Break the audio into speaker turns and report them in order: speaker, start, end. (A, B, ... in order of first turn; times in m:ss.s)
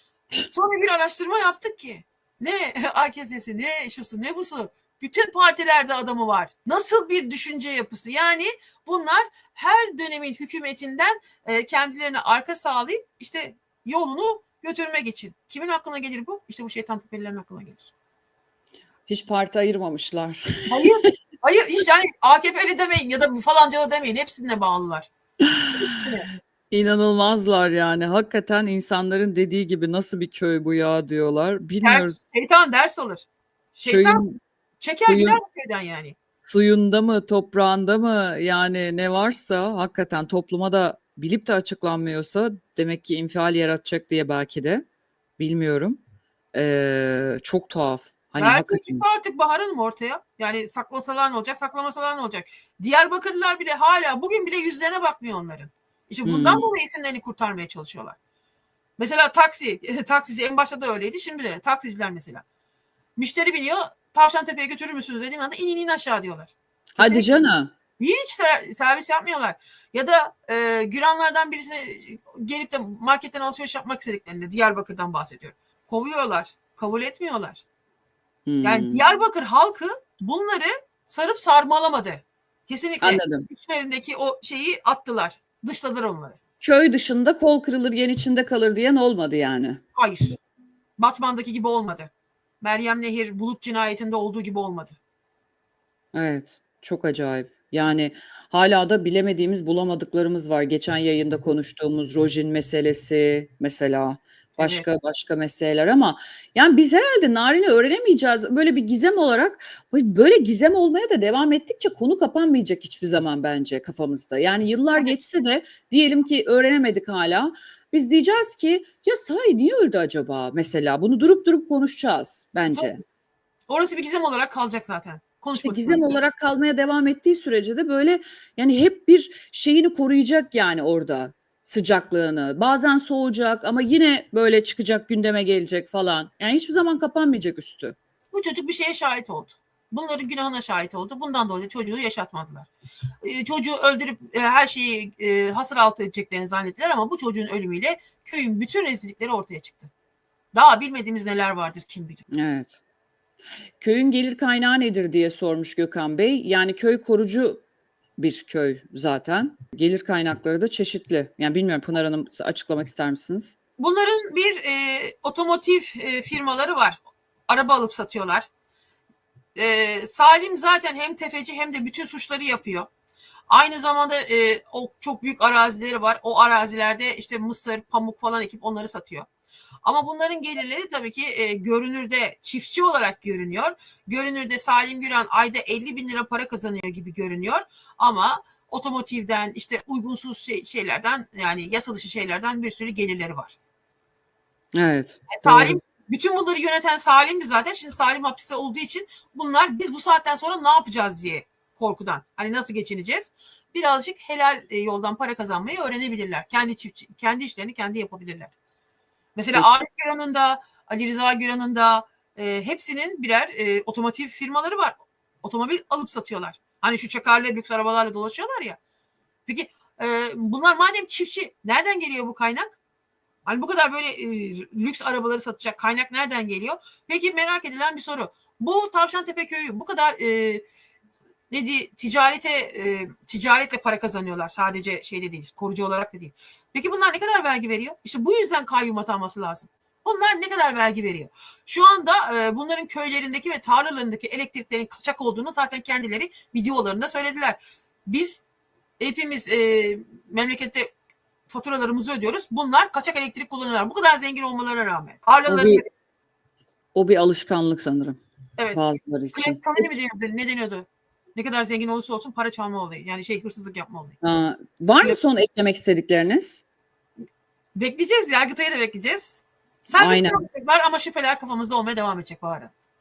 0:00.5-0:17.9 A
0:19.1-0:20.9 B
0:20.7-0:25.1 A
0:25.5-0:26.0 B
0:25.8-0:26.3 A
0:26.7-0:32.2 B
0:31.8-0:34.2 A
0:33.8-0:34.4 B
0:34.8-0:36.2 A
0:35.1-0:35.4 B
0:36.4-0:44.9 B
0:45.4-0:46.0 B
0:46.5-0:49.0 B
0:48.4-0:58.2 A
0:56.2-0:56.7 B
0:59.0-1:02.4 A
1:03.2-1:07.3 A
1:07.0-1:07.7 B
1:08.0-1:17.6 A
1:18.5-1:19.0 B
1:18.6-1:26.4 A
1:23.0-1:23.5 B
1:26.6-1:29.8 B
1:30.0-1:30.4 A
1:31.0-1:35.0 A
1:36.1-2:03.0 B
1:44.6-1:44.9 A
2:02.7-2:03.0 A
2:03.7-2:06.2 A
2:05.6-2:18.0 B
2:18.3-2:22.7 A
2:23.2-2:29.9 A
2:30.5-2:32.2 A
2:32.3-2:32.7 B
2:33.8-2:37.6 B
2:38.2-2:43.6 B
2:43.8-2:48.5 A
2:49.6-2:52.9 A
2:53.5-2:59.3 A
2:59.8-3:13.6 A
3:14.7-3:15.8 B
3:15.3-3:28.5 A
3:29.4-3:38.8 A
3:39.5-3:42.8 A
3:43.5-3:50.6 A
3:51.5-4:08.4 A
4:09.0-4:10.9 A
4:11.5-4:15.9 A
4:15.5-4:15.8 B
4:17.0-4:18.2 B
4:18.7-4:20.0 B
4:19.3-4:24.2 A
4:24.2-4:26.6 B
4:27.8-4:32.7 A
4:30.0-4:30.4 B